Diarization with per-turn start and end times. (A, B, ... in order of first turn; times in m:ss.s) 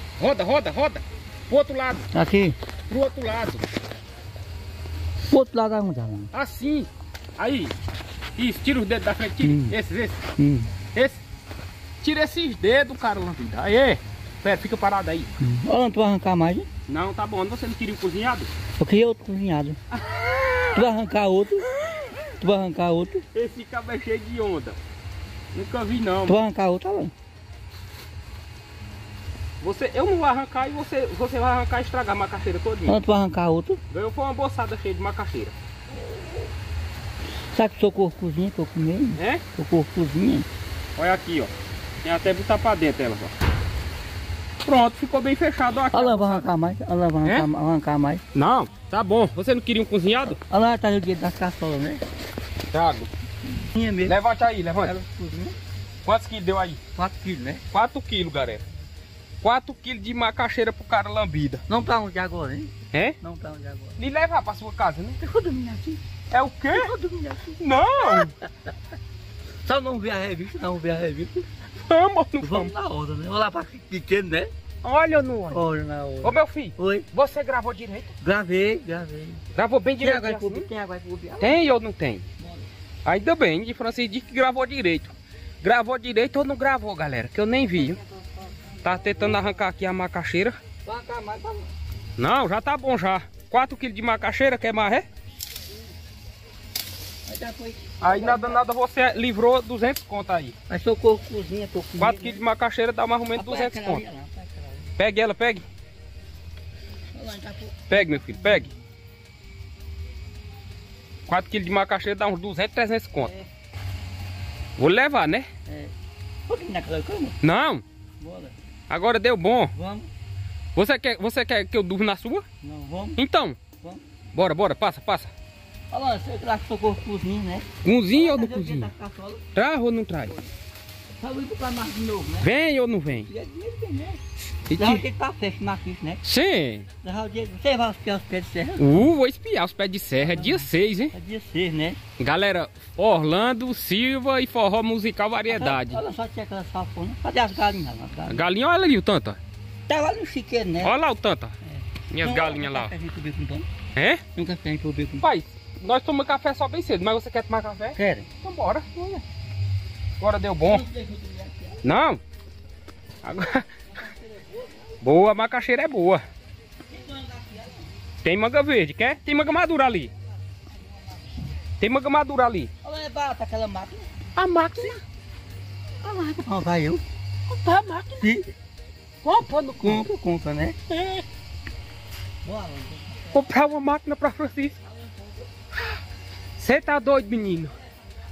0:00.2-0:02.1 A
0:02.1-0:02.6 B
0:02.9-0:03.7 A
0:05.3-0:06.3 B
0:06.3-0:07.7 A
0:08.4-0:10.2 A
0:09.4-0:09.7 B
0:10.4-0:10.7 B
0:10.9-0:11.2 A
0:12.0-0:15.3 A
0:15.4-0:16.7 B
0:16.9-0:18.5 A
0:18.8-0:19.8 B
0:19.9-0:20.8 A
0:20.7-0:21.7 B
0:22.4-0:23.2 B
0:23.3-0:24.8 A
0:25.5-0:26.4 A
0:26.3-0:27.1 B
0:29.6-0:33.0 A
0:32.9-0:33.8 B
0:33.9-0:35.5 A
0:37.5-0:40.4 B
0:39.2-0:39.4 A
0:41.0-0:41.5 A
0:42.0-0:43.3 A
0:44.6-0:46.5 A
0:45.9-0:48.2 B
0:48.3-0:50.4 A
0:50.4-0:52.0 B
0:52.7-0:53.1 A
0:53.6-0:54.2 B
0:54.0-0:54.9 A
0:54.8-0:55.6 B
0:56.0-0:56.8 A
0:57.0-0:57.6 B
0:57.7-0:58.6 A
0:59.4-1:01.6 A
1:01.7-1:04.0 B
1:04.0-1:05.2 A
1:05.2-1:06.0 B
1:06.3-1:06.9 A
1:06.7-1:08.3 B
1:07.6-1:08.3 A
1:09.6-1:11.4 B
1:11.8-1:12.7 A
1:12.4-1:14.5 B
1:14.8-1:15.7 A
1:15.5-1:17.0 B
1:16.2-1:18.1 A
1:18.2-1:19.4 B
1:19.5-1:20.7 A
1:20.0-1:21.6 B
1:21.4-1:22.2 A
1:22.4-1:22.7 B
1:23.0-1:28.0 A
1:27.8-1:28.5 B
1:28.8-1:30.6 A
1:30.8-1:31.7 B
1:32.2-1:35.0 A
1:37.2-1:38.6 B
1:38.0-1:40.5 A
1:40.7-1:42.4 B
1:42.0-1:44.0 A
1:43.4-1:44.9 B
1:45.0-1:45.6 A
1:47.1-1:48.7 B
1:47.9-1:48.7 A
1:51.3-1:53.3 A
1:53.2-1:53.5 B
1:54.8-1:55.5 A
1:55.7-1:55.9 B
1:56.5-1:57.4 B
1:57.4-1:57.8 A
1:58.2-1:58.5 B
1:58.9-1:59.7 A
1:59.7-2:00.1 B
2:00.7-2:02.4 A
2:02.6-2:03.2 B
2:03.2-2:03.6 A
2:04.3-2:05.3 A
2:05.9-2:09.4 B
2:07.8-2:08.9 A
2:09.5-2:10.3 A
2:11.2-2:12.5 B
2:12.4-2:13.3 A
2:13.3-2:14.2 B
2:14.7-2:15.0 A
2:14.7-2:16.2 B
2:16.2-2:16.9 A
2:17.0-2:19.0 B
2:18.8-2:21.1 A
2:20.2-2:22.0 B
2:22.2-2:26.0 A
2:25.5-2:28.4 B
2:28.3-2:29.4 A
2:29.9-2:30.9 B
2:30.8-2:31.6 A
2:31.7-2:33.7 B
2:32.1-2:32.9 A
2:33.9-2:34.2 A
2:34.3-2:35.2 B
2:35.2-2:39.2 A
2:38.0-2:38.3 B
2:40.2-2:40.8 A
2:40.6-2:41.8 B
2:41.8-2:42.2 A
2:43.2-2:43.7 A
2:43.9-2:45.0 B
2:45.0-2:46.2 A
2:46.9-2:47.9 B
2:48.2-2:50.1 A
2:51.8-2:52.7 A
2:52.8-2:54.1 B
2:54.4-2:55.0 A
2:56.0-2:57.0 B
2:57.5-2:58.3 A
2:58.2-2:58.5 B
2:59.2-3:00.0 A
2:59.8-3:00.8 B
3:00.9-3:01.2 A
3:02.4-3:03.4 B
3:03.3-3:04.8 A
3:04.9-3:05.4 B
3:06.6-3:07.7 A